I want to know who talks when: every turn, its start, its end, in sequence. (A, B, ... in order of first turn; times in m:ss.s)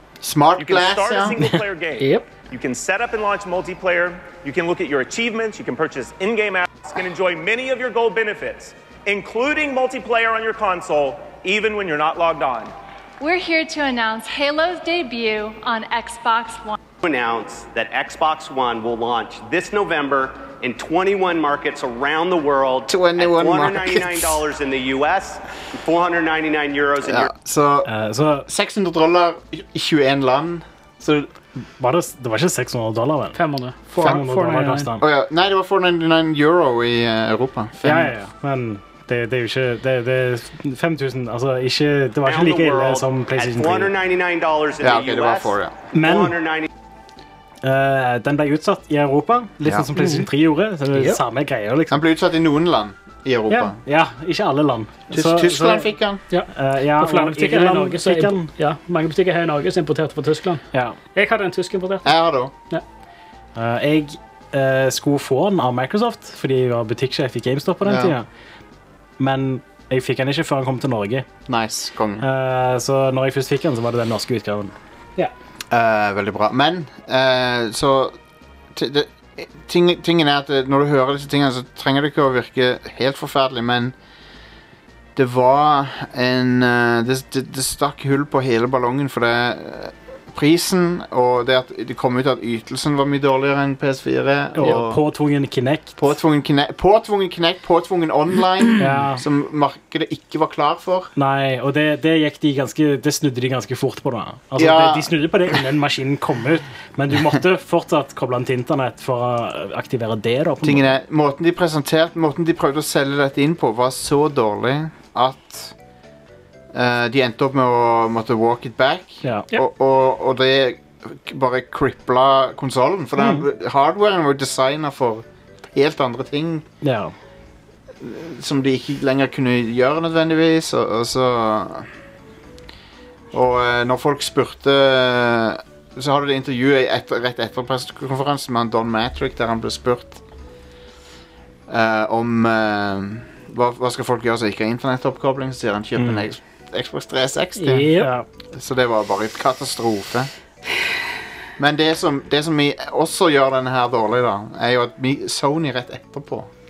0:00.2-0:01.4 A
0:00.6-0:12.7 B
0:02.0-0:02.3 C
0:13.2-0:16.8 D
0:17.0-0:27.3 E
0:22.9-0:24.4 A
0:27.0-0:27.9 A
0:27.8-0:28.5 F
0:28.4-0:31.3 A
0:31.8-0:33.4 F
0:33.3-0:34.9 C
0:33.9-0:35.0 F
0:35.0-0:38.1 A
0:37.8-0:43.9 F
0:42.2-0:46.7 E
0:44.8-0:45.7 A
0:45.9-0:46.4 F
0:47.6-0:52.0 F
0:50.0-0:50.3 C
0:50.9-0:51.2 C
0:51.9-0:53.8 A
0:53.5-0:55.9 F
0:55.1-0:56.2 A
0:56.3-1:02.1 C
0:56.5-0:58.5 F
1:00.7-1:01.0 F
1:02.0-1:02.5 A
1:03.6-1:08.2 F
1:07.8-1:08.2 A
1:09.2-1:11.2 F
1:11.5-1:12.2 A
1:12.2-1:14.7 F
1:15.7-1:18.2 A
1:18.7-1:23.9 A
1:25.2-1:35.0 A
1:34.6-1:36.0 F
1:36.0-1:41.1 A
1:38.8-1:39.2 F
1:41.2-1:50.9 F
1:44.6-1:45.1 A
1:50.6-1:55.7 A
1:56.7-2:06.7 A
1:59.2-1:59.5 F
2:03.2-2:03.4 F
2:06.8-2:07.1 F
2:08.0-2:11.9 A
2:13.3-2:20.2 A
2:21.7-2:27.9 A
2:26.0-2:26.2 F
2:27.6-2:28.1 C
2:28.0-2:28.2 F
2:28.5-2:30.3 A
2:31.6-2:36.5 A